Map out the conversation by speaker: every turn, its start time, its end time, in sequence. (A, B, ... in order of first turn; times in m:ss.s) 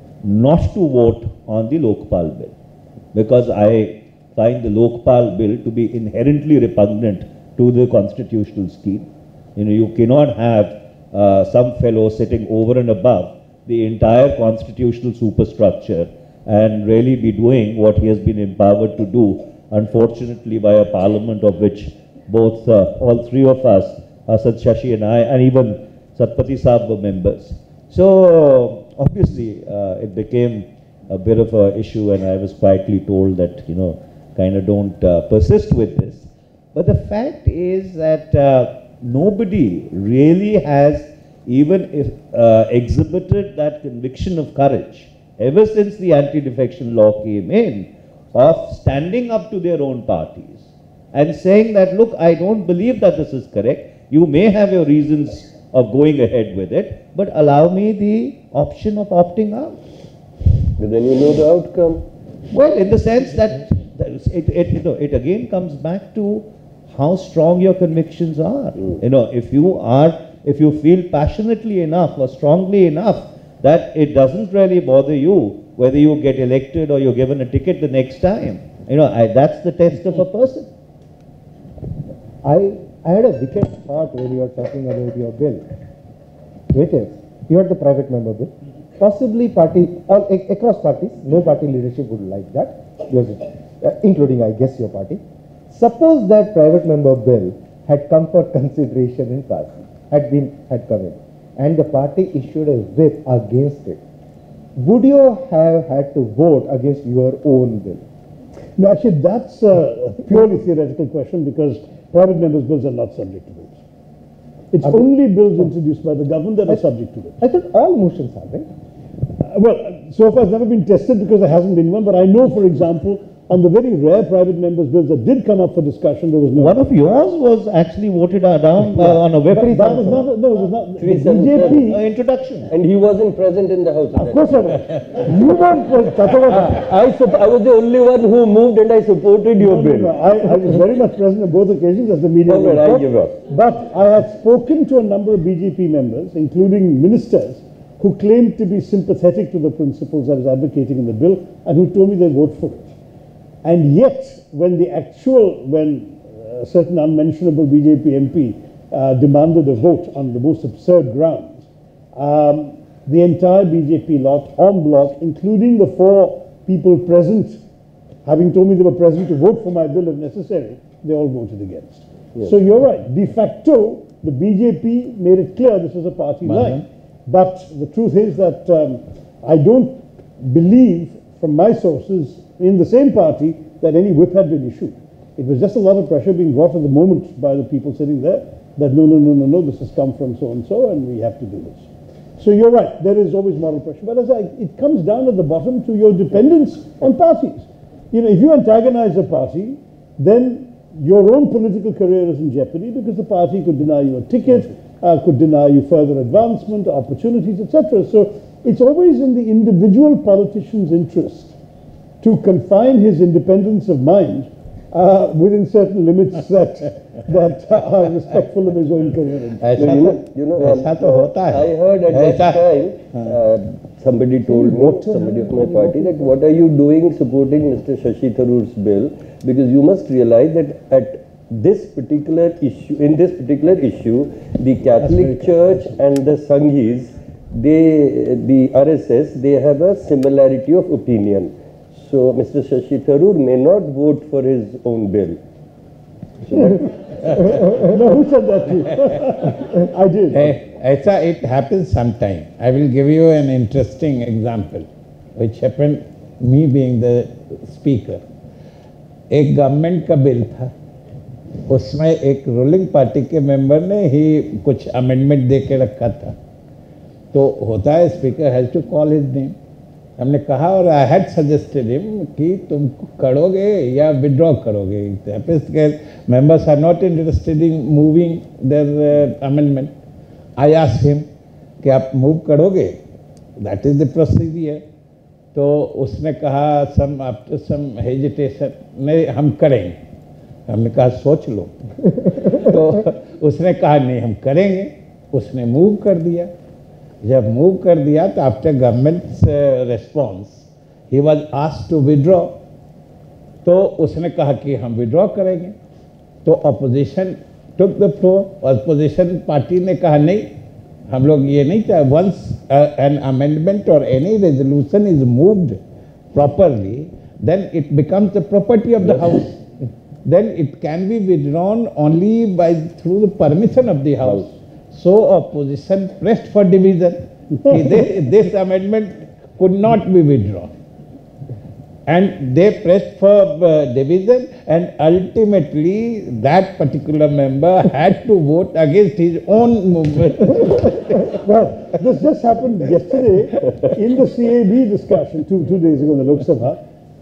0:00.2-0:02.5 A
0:03.1-0:59.8 A
1:00.8-1:02.0 B
1:02.5-1:20.7 A
1:22.4-1:25.6 C
1:26.7-1:44.0 C
1:44.8-1:48.1 C
1:48.8-1:53.8 D
1:54.7-1:57.4 D
1:57.4-1:58.7 C
1:59.4-2:06.8 D
2:06.6-2:10.3 A
2:09.0-2:12.0 D
2:11.0-2:11.8 B
2:11.6-2:12.7 A
2:12.7-2:14.8 B
2:14.2-2:16.8 D
2:16.3-2:20.3 B
2:19.6-2:32.9 D
2:22.5-2:23.4 B
2:33.6-2:47.6 D
2:48.2-3:31.5 D
2:56.4-2:56.8 E
3:32.2-3:39.9 D
3:39.6-3:42.6 E
3:39.8-4:05.4 B
3:44.5-3:46.1 D
3:55.0-3:56.0 D
4:06.4-4:06.8 B
4:07.4-4:10.5 D
4:10.3-4:18.2 E
4:19.3-4:20.7 E
4:21.7-4:26.4 E
4:27.3-4:29.6 E
4:30.2-4:39.9 E
4:40.6-4:41.3 E
4:41.8-4:43.0 E
4:43.6-4:44.8 E
4:45.5-4:50.0 E
4:50.7-4:56.5 E
4:57.2-5:02.5 E
5:03.6-5:05.8 E
5:06.4-5:10.5 E
5:11.1-5:15.8 E
5:16.3-5:19.6 E
5:20.2-5:30.7 E
5:27.6-5:28.0 D
5:32.1-5:41.2 E
5:41.3-5:46.8 D